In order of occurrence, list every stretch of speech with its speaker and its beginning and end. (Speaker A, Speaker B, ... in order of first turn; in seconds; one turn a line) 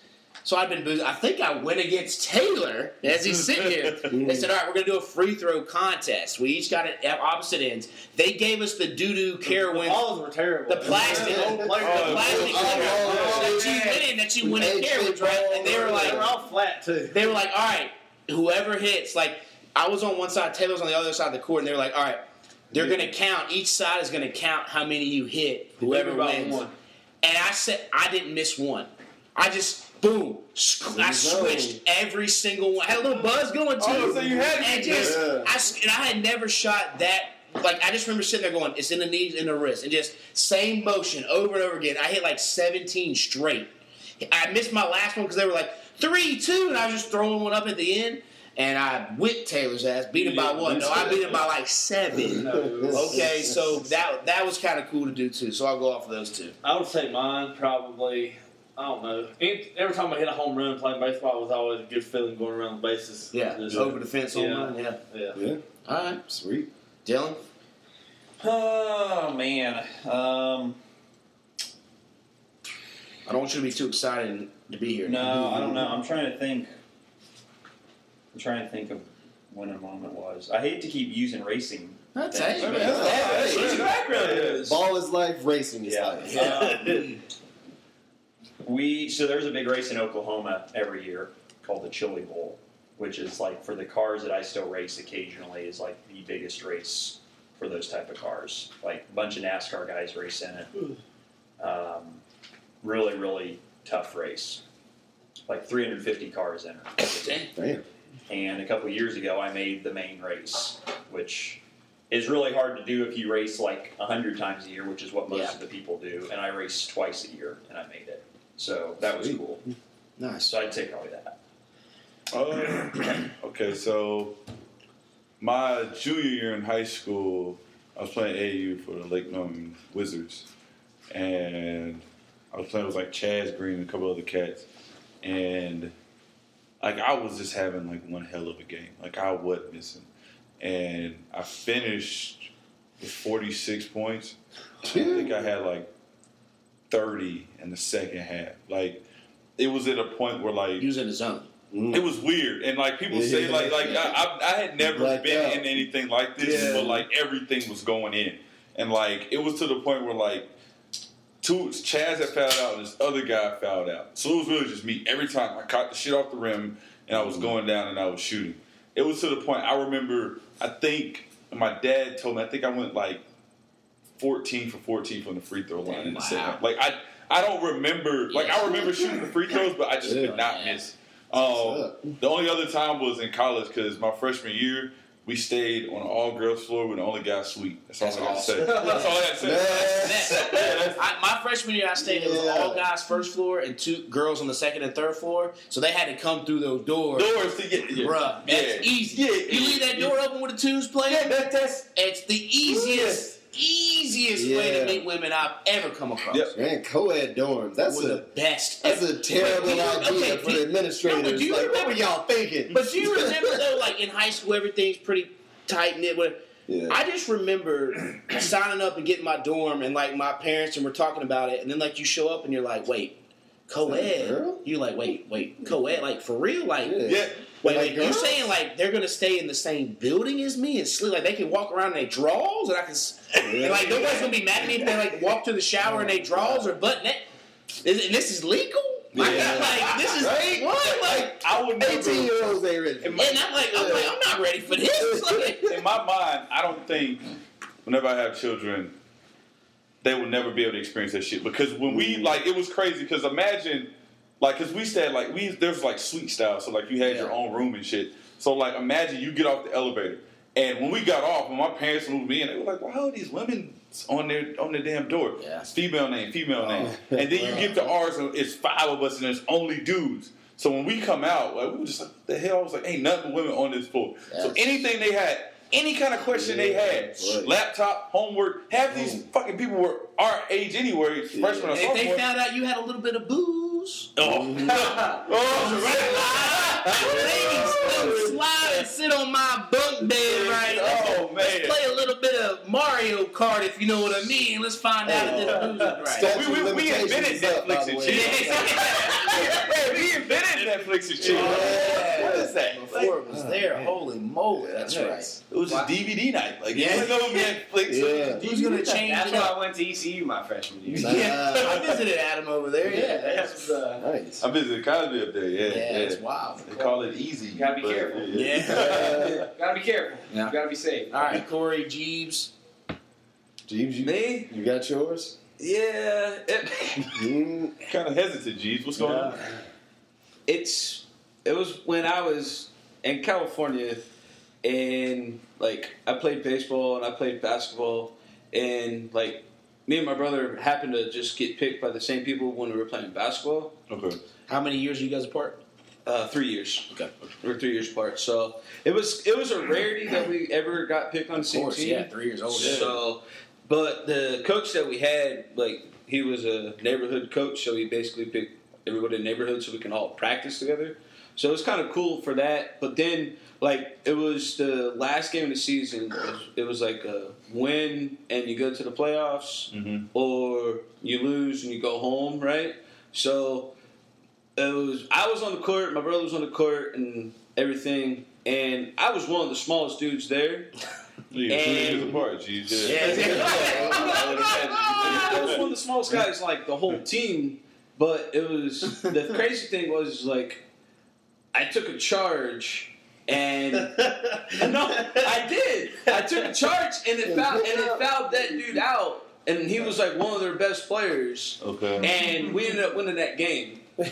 Speaker A: 0.4-10.1
Speaker B: 3.4-4.1
Speaker C: 4.1-4.5
Speaker D: 9.4-14.1
Speaker A: 10.7-16.2
Speaker C: 10.9-16.3
Speaker B: 11.8-13.1
Speaker D: 15.6-17.4
Speaker A: 17.1-26.6
Speaker C: 22.7-23.1
Speaker D: 25.8-26.7
Speaker A: 27.2-56.5
Speaker C: 30.9-31.8
Speaker B: 33.8-35.3
Speaker C: 33.9-35.5
Speaker D: 50.2-51.5
Speaker C: 52.2-53.5
Speaker D: 52.3-53.3
Speaker D: 56.6-65.4
Speaker A: 63.3-65.0
Speaker C: 65.3-65.6
Speaker A: 65.8-66.2
Speaker C: 66.2-66.7
Speaker A: 67.0-67.4
Speaker E: 68.4-70.8
Speaker A: 73.2-75.5
Speaker E: 75.0-76.7
Speaker C: 75.2-75.9
Speaker E: 78.3-83.3
Speaker A: 82.1-83.1
Speaker B: 82.6-84.6
Speaker C: 82.8-86.5
Speaker F: 82.8-84.8
Speaker E: 85.8-86.8
Speaker A: 86.3-86.8
Speaker D: 86.4-87.1
Speaker E: 88.6-100.7
Speaker E: 101.6-102.2
Speaker E: 102.8-104.6
Speaker E: 105.5-107.5
Speaker A: 107.0-107.5
Speaker C: 107.5-107.8
Speaker E: 108.3-111.6
Speaker E: 112.1-119.6
Speaker A: 115.3-115.6
Speaker C: 119.0-119.4
Speaker A: 120.2-120.5
Speaker E: 120.5-121.3
Speaker B: 122.3-124.4
Speaker B: 125.4-130.4
Speaker B: 131.1-134.7
Speaker B: 135.2-135.9
Speaker B: 136.8-140.1
Speaker B: 140.6-145.9
Speaker C: 144.8-145.4
Speaker B: 146.9-149.0
Speaker B: 149.6-150.9
Speaker A: 150.8-151.5
Speaker C: 151.7-152.1
Speaker B: 151.9-160.5
Speaker C: 153.1-154.1
Speaker C: 154.8-155.7
Speaker C: 156.4-157.1
Speaker A: 156.4-156.9
Speaker B: 161.4-173.2
Speaker C: 167.1-167.5
Speaker B: 174.2-191.0
Speaker A: 175.8-176.6
Speaker A: 178.3-179.0
Speaker C: 178.8-179.2
Speaker C: 180.0-180.4
Speaker A: 180.0-180.8
Speaker C: 181.3-182.1
Speaker A: 188.0-189.2
Speaker C: 188.7-190.5
Speaker G: 188.7-189.0
Speaker A: 189.7-197.3
Speaker C: 192.0-192.9
Speaker B: 197.1-200.2
Speaker A: 198.0-201.3
Speaker B: 201.0-201.9
Speaker A: 201.9-206.5
Speaker C: 202.6-203.2
Speaker C: 204.3-205.1
Speaker C: 206.5-208.2
Speaker A: 207.9-212.2
Speaker C: 208.8-213.6
Speaker A: 212.7-223.2
Speaker C: 216.7-217.0
Speaker A: 223.7-227.0
Speaker C: 223.8-224.6
Speaker C: 226.8-228.5
Speaker B: 227.1-227.5
Speaker A: 227.6-237.2
Speaker C: 233.4-234.3
Speaker C: 235.8-236.7
Speaker A: 237.8-241.4
Speaker B: 239.1-240.2
Speaker C: 239.2-244.1
Speaker G: 239.2-239.6
Speaker B: 241.2-242.3
Speaker B: 243.0-244.0
Speaker A: 243.2-245.6
Speaker C: 245.0-245.8
Speaker B: 245.6-247.3
Speaker B: 247.8-248.9
Speaker B: 250.0-282.2
Speaker C: 251.9-252.4
Speaker A: 257.0-257.3
Speaker A: 265.4-265.7
Speaker C: 266.6-267.9
Speaker A: 274.3-274.9
Speaker C: 276.2-277.5
Speaker C: 278.9-279.2
Speaker C: 281.3-281.8
Speaker A: 281.7-284.1
Speaker B: 284.1-288.9
Speaker C: 284.2-284.8
Speaker G: 284.6-285.2
Speaker A: 285.4-296.4
Speaker C: 287.4-288.1
Speaker B: 290.2-291.8
Speaker C: 295.1-299.7
Speaker B: 295.1-303.1
Speaker A: 298.0-299.6
Speaker G: 299.9-301.7
Speaker A: 301.2-305.9
Speaker C: 301.2-304.0
Speaker C: 304.5-305.4
Speaker B: 305.5-308.9
Speaker A: 306.7-307.4
Speaker C: 307.9-308.4
Speaker A: 308.3-309.6
Speaker G: 308.9-311.4
Speaker C: 310.9-311.8
Speaker A: 311.0-313.8
Speaker B: 311.6-312.0
Speaker G: 312.8-314.1
Speaker C: 314.0-314.4
Speaker B: 314.4-319.3
Speaker A: 315.6-316.7
Speaker G: 316.7-318.3
Speaker A: 318.3-319.1
Speaker C: 318.7-319.5
Speaker G: 318.9-321.4
Speaker A: 320.3-320.5
Speaker A: 321.1-322.5
Speaker C: 323.7-325.4
Speaker F: 324.0-324.5
Speaker F: 325.6-327.3
Speaker C: 327.1-327.8
Speaker B: 327.9-329.4
Speaker A: 328.9-329.6
Speaker F: 330.4-334.1
Speaker F: 334.6-343.8
Speaker B: 343.9-344.2
Speaker A: 344.5-345.6
Speaker F: 346.0-373.7
Speaker A: 351.4-352.9
Speaker B: 352.5-353.0
Speaker B: 369.7-370.1
Speaker F: 374.6-380.7
Speaker B: 381.3-383.9
Speaker F: 381.5-390.6
Speaker A: 382.8-385.6
Speaker B: 385.0-385.6
Speaker F: 391.5-394.0
Speaker F: 394.5-403.9
Speaker C: 397.2-398.8
Speaker B: 401.6-402.1